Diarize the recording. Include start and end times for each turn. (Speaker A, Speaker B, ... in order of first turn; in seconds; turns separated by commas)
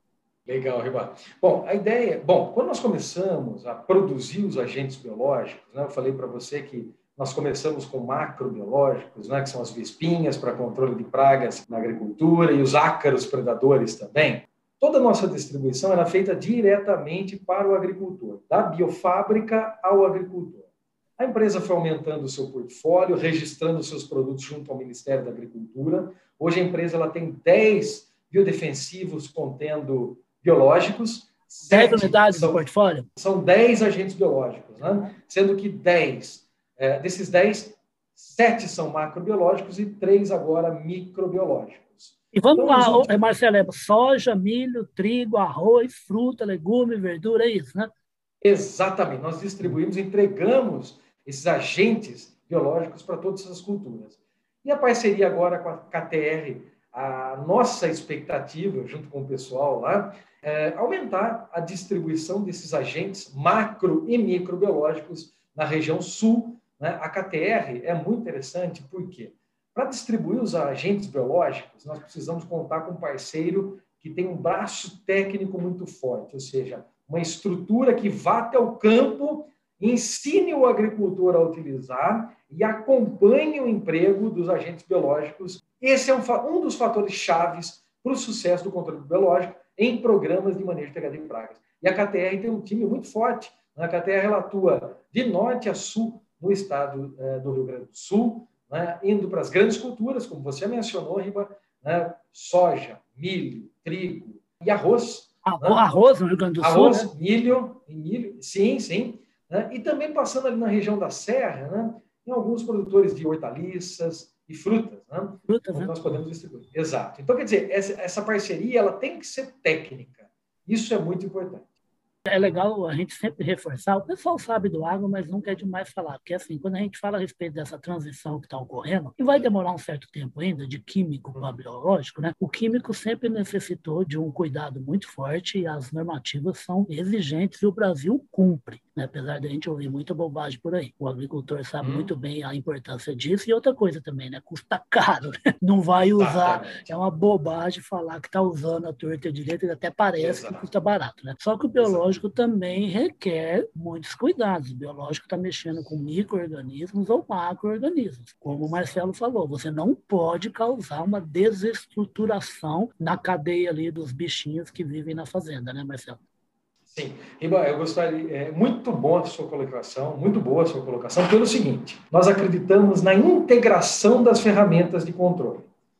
Speaker A: 0.5-43.1, Speaker B: 31.7-33.1, Speaker B: 42.3-47.9, Speaker A: 48.4-105.8, Speaker B: 105.4-107.1, Speaker A: 106.6-121.7, Speaker B: 115.5-116.2, Speaker B: 122.3-166.2, Speaker A: 141.8-142.1, Speaker A: 146.2-146.9, Speaker A: 150.2-150.7, Speaker A: 151.8-152.1, Speaker A: 166.9-175.7